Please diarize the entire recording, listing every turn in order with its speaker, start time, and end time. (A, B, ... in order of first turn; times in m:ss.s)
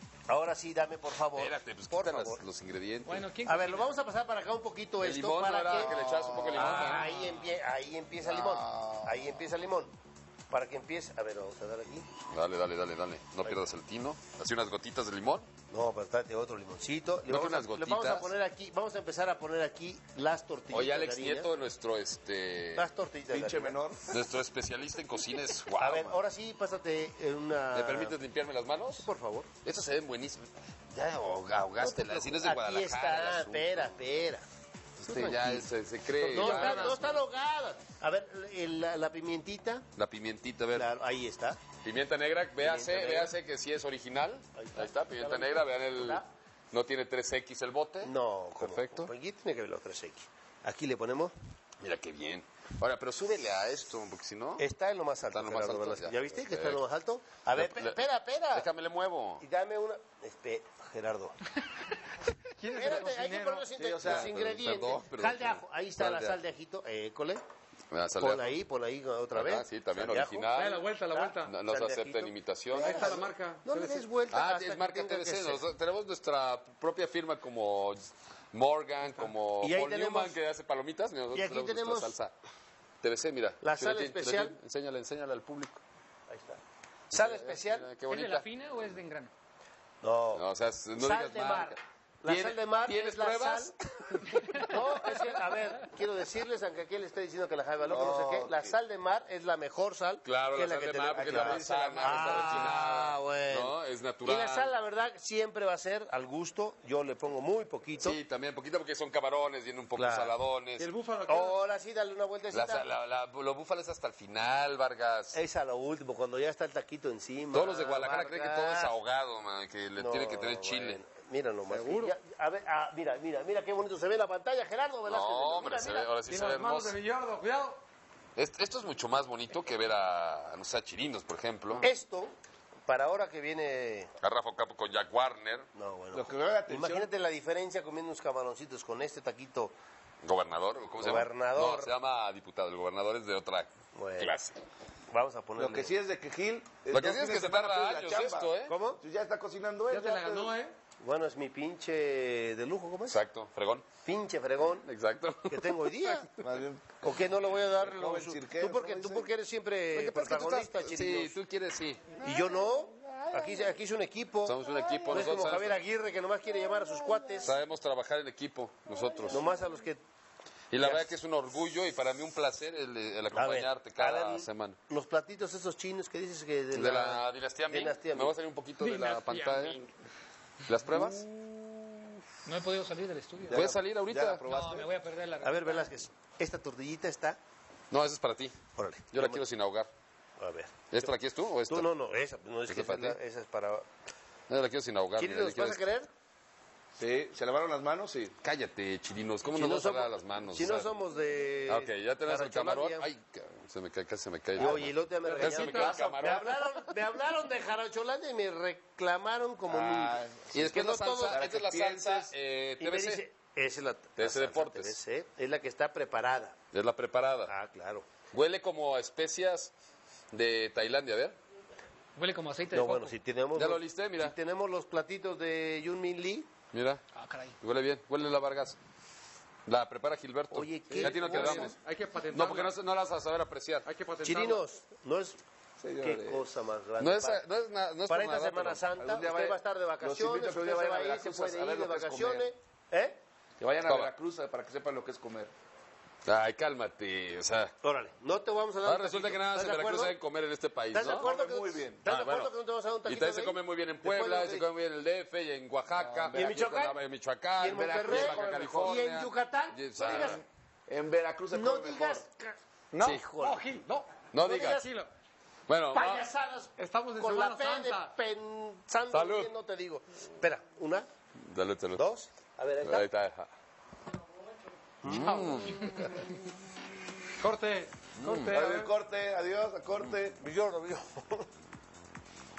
0:00.3-0:02.4 A
0:01.4-0:03.3 B
0:03.0-0:03.9 C
0:03.4-0:09.9 A
0:05.0-0:07.2 B
0:06.6-0:07.0 C
0:08.2-0:09.3 B
0:10.5-0:12.1 A
0:12.3-0:15.5 B
0:15.7-0:21.5 A
0:17.3-0:18.3 B
0:20.7-0:22.9 B
0:22.8-0:23.8 A
0:23.3-0:24.0 D
0:24.1-0:26.2 B
0:25.8-0:28.2 A
0:27.7-0:29.1 B
0:29.0-0:29.5 A
0:29.6-0:34.0 B
0:31.8-0:34.4 A
0:35.0-0:39.8 A
0:35.0-0:37.2 B
0:40.0-0:40.9 B
0:40.7-0:41.6 A
0:41.8-0:49.1 B
0:42.6-0:43.3 A
0:44.6-0:46.2 A
0:48.0-0:51.3 A
0:51.8-0:54.6 B
0:54.6-0:58.7 A
0:55.3-0:56.8 B
0:57.6-0:58.0 B
0:58.5-0:59.4 B
0:59.4-1:01.4 A
1:02.6-1:03.7 C
1:02.7-1:07.4 A
1:03.8-1:04.3 D
1:04.0-1:06.4 B
1:07.9-1:08.6 B
1:08.2-1:15.6 A
1:09.3-1:10.8 B
1:10.5-1:11.5 C
1:11.4-1:13.2 B
1:12.7-1:14.0 C
1:14.3-1:22.3 B
1:19.6-1:20.4 A
1:21.3-1:22.1 A
1:23.0-1:25.8 B
1:23.6-1:24.6 A
1:26.3-1:26.6 A
1:27.1-1:27.9 A
1:27.1-1:29.0 B
1:28.1-1:29.3 C
1:30.0-1:33.7 A
1:30.3-1:34.1 B
1:34.3-1:35.2 C
1:34.4-1:43.7 A
1:37.9-1:38.8 D
1:40.2-1:44.7 B
1:41.1-1:42.7 D
1:44.2-1:48.2 A
1:48.0-1:50.9 B
1:49.9-1:50.4 A
1:50.8-1:51.6 C
1:51.3-1:52.9 A
1:52.5-1:55.4 B
1:55.3-1:58.9 A
1:57.5-2:01.0 B
2:00.0-2:06.1 A
2:01.7-2:02.1 C
2:05.1-2:07.0 B
2:06.3-2:07.8 C
2:08.4-2:11.9 B
2:11.8-2:12.3 A
2:12.9-2:14.1 A
2:14.2-2:15.7 B
2:15.8-2:19.7 A
2:16.1-2:17.1 D
2:20.2-2:24.6 B
2:21.0-2:21.9 A
2:23.9-2:24.3 A
2:25.1-2:25.9 A
2:25.6-2:30.6 D
2:26.9-2:28.7 B
2:28.6-2:29.0 A
2:29.9-2:30.8 C
2:31.0-2:33.2 A
2:33.1-2:33.9 B
2:34.0-2:34.9 A
2:34.8-2:36.3 B
2:35.5-2:36.3 A
2:36.4-2:39.3 D
2:37.0-2:41.4 A
2:39.9-2:42.3 B
2:42.2-2:47.6 A
2:44.4-2:45.8 B
2:47.4-2:49.5 B
2:49.3-2:50.0 A
2:50.7-2:54.8 B
2:50.8-2:51.1 A
2:53.3-2:58.4 A
2:56.7-2:59.8 B
2:58.8-2:59.9 C
3:00.7-3:01.3 B
3:02.4-3:03.7 C
3:03.5-3:04.9 D
3:03.5-3:04.4 B
3:04.5-3:06.0 C
3:05.4-3:07.4 A
3:07.9-3:08.6 B
3:08.8-3:09.4 A
3:09.1-3:09.9 B
3:10.4-3:11.1 A
3:10.9-3:11.9 B
3:11.7-3:13.9 A
3:12.7-3:13.2 B
3:14.5-3:15.8 B
3:15.2-3:16.1 A
3:17.0-3:18.4 D
3:18.4-3:20.9 B
3:19.5-3:23.1 A
3:21.7-3:26.5 B
3:24.6-3:31.4 A
3:25.2-3:26.0 C
3:29.7-3:30.6 D
3:30.5-3:33.2 B
3:31.3-3:32.3 D
3:32.8-3:36.6 A
3:34.2-3:35.0 B
3:36.7-3:37.5 B
3:37.4-3:38.1 A
3:38.3-3:39.7 B
3:40.3-3:41.4 B
3:42.2-3:43.1 C
3:42.7-3:46.5 A
3:43.6-3:44.4 B
3:46.7-3:47.0 B
3:47.1-3:47.6 C
3:47.6-3:48.8 B
3:49.7-3:51.8 B
3:50.5-3:51.7 A
3:51.3-3:52.7 C
3:52.3-3:53.9 B
3:53.9-3:54.6 C
3:54.2-3:55.4 A
3:55.8-3:56.5 D
3:56.0-3:57.4 A
3:57.0-3:58.8 B
3:58.1-4:03.2 A
3:59.0-4:02.5 D
4:03.6-4:05.5 D
4:03.9-4:04.1 B
4:06.2-4:07.7 B
4:07.8-4:10.2 A
4:08.8-4:11.3 B
4:10.9-4:14.6 A
4:11.1-4:12.1 D
4:12.0-4:12.5 B
4:13.1-4:20.4 B
4:14.3-4:14.6 D
4:16.0-4:16.8 D
4:16.3-4:17.0 A
4:17.6-4:20.4 A
4:17.6-4:19.0 D
4:20.0-4:22.2 D
4:21.5-4:23.6 A
4:22.9-4:23.2 D
4:23.4-4:25.1 C
4:24.3-4:24.8 B
4:24.4-4:24.9 A
4:25.7-4:26.2 B
4:25.9-4:31.1 A
4:26.8-4:28.1 C
4:29.1-4:29.5 B
4:31.4-4:32.0 B
4:31.9-4:33.1 A
4:32.8-4:33.5 B
4:35.0-4:36.0 A
4:35.0-4:36.3 B
4:35.3-4:36.1 C
4:37.4-4:38.9 C
4:38.2-4:38.6 B
4:38.5-4:40.4 D
4:40.4-4:41.4 A